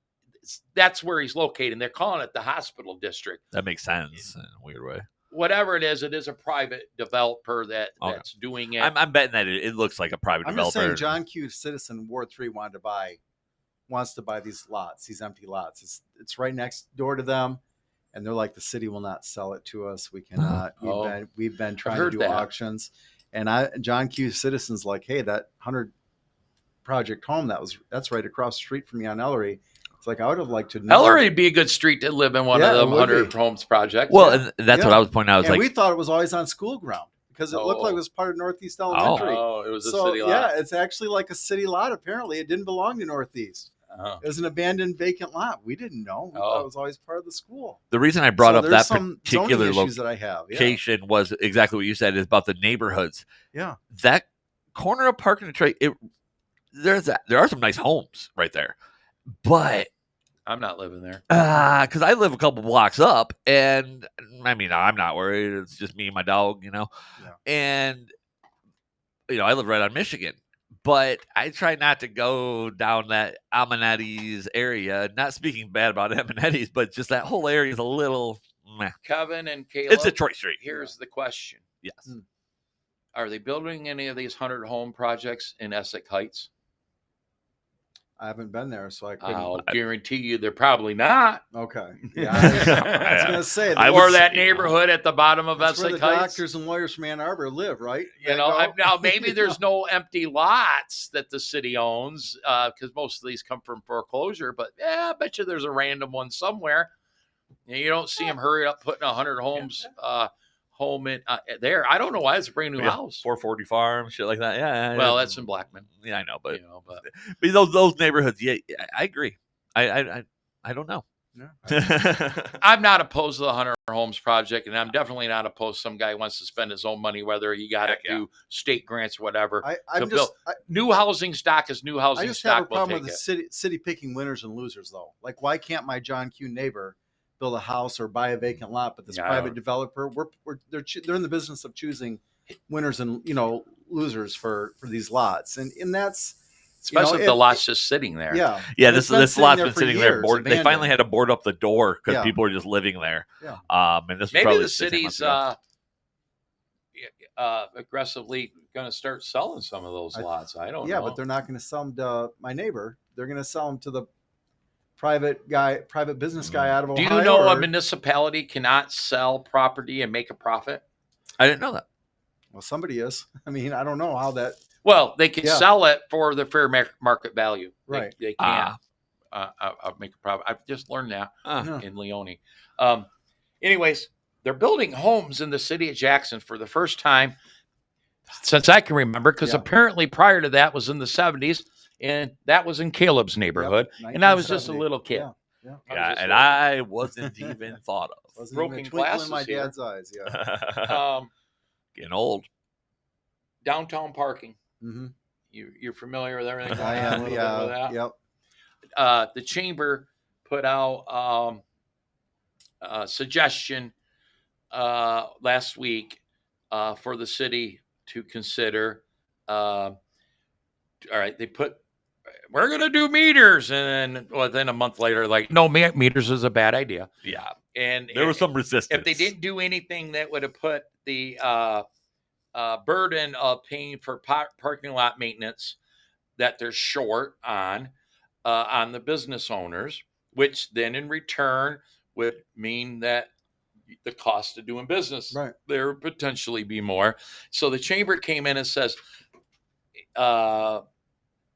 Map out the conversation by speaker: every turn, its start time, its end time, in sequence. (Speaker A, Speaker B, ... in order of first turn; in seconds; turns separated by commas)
Speaker A: 0.4-3.4, Speaker B: 3.5-5.0, Speaker A: 5.3-8.9, Speaker B: 8.8-11.2, Speaker C: 10.4-13.2, Speaker C: 13.9-17.6, Speaker C: 18.1-25.9, Speaker B: 20.4-20.6, Speaker A: 20.8-21.2, Speaker A: 21.8-22.5, Speaker C: 26.9-31.3, Speaker A: 30.9-34.4, Speaker C: 32.5-33.4, Speaker B: 34.1-35.7, Speaker C: 34.1-47.8, Speaker A: 37.5-38.0, Speaker B: 38.9-39.3, Speaker A: 39.0-40.5, Speaker A: 43.9-44.2, Speaker A: 46.4-46.7, Speaker B: 47.9-50.0, Speaker C: 48.4-50.8, Speaker B: 50.5-53.3, Speaker C: 53.5-53.8, Speaker B: 53.9-56.0, Speaker B: 56.7-58.7, Speaker B: 59.4-59.9, Speaker A: 60.5-61.2, Speaker B: 61.3-66.9, Speaker B: 67.5-68.1, Speaker B: 69.3-79.0, Speaker A: 79.0-81.6, Speaker B: 79.9-80.6, Speaker A: 83.2-86.5, Speaker C: 88.2-89.6, Speaker A: 89.2-91.4, Speaker C: 91.5-94.2, Speaker A: 92.0-93.3, Speaker B: 92.4-94.8, Speaker A: 93.9-96.4, Speaker C: 95.6-99.6, Speaker A: 98.2-106.9, Speaker A: 107.7-113.2, Speaker B: 112.8-121.0, Speaker A: 114.9-115.9, Speaker A: 116.5-117.0, Speaker C: 121.4-121.9, Speaker B: 121.7-122.6, Speaker A: 122.6-133.2, Speaker B: 127.8-128.2, Speaker C: 129.6-130.6, Speaker C: 132.2-147.6, Speaker A: 139.1-139.6, Speaker A: 146.9-148.5, Speaker C: 148.3-150.9, Speaker B: 148.7-155.4, Speaker C: 152.1-152.4, Speaker A: 154.3-155.6, Speaker A: 157.0-161.2, Speaker C: 160.1-164.1, Speaker C: 165.0-167.7, Speaker B: 166.4-166.8, Speaker A: 166.9-170.8, Speaker B: 171.4-171.8, Speaker C: 172.5-174.6, Speaker A: 174.8-178.8, Speaker C: 175.4-175.7, Speaker C: 177.9-178.1, Speaker B: 178.4-178.8, Speaker A: 179.3-183.1, Speaker B: 181.4-181.7, Speaker C: 181.6-181.8, Speaker A: 183.6-187.4, Speaker A: 188.3-195.3, Speaker C: 189.4-189.7, Speaker C: 193.6-195.8, Speaker A: 195.9-196.6, Speaker B: 195.9-198.3, Speaker C: 197.2-197.6, Speaker C: 198.4-200.4, Speaker A: 198.5-199.7, Speaker B: 200.3-201.0, Speaker A: 200.8-201.3, Speaker B: 202.0-202.5, Speaker A: 203.6-204.6, Speaker C: 204.8-205.1, Speaker A: 205.5-208.0, Speaker B: 206.7-207.2, Speaker C: 206.8-208.2, Speaker A: 209.0-211.6, Speaker A: 212.8-213.9, Speaker A: 214.7-220.0, Speaker A: 221.0-221.8, Speaker A: 222.5-227.1, Speaker B: 227.2-227.5, Speaker A: 227.7-231.8, Speaker B: 228.1-229.3, Speaker A: 232.5-235.8, Speaker A: 236.4-237.9, Speaker A: 238.4-243.3, Speaker A: 244.0-249.0, Speaker A: 250.2-250.8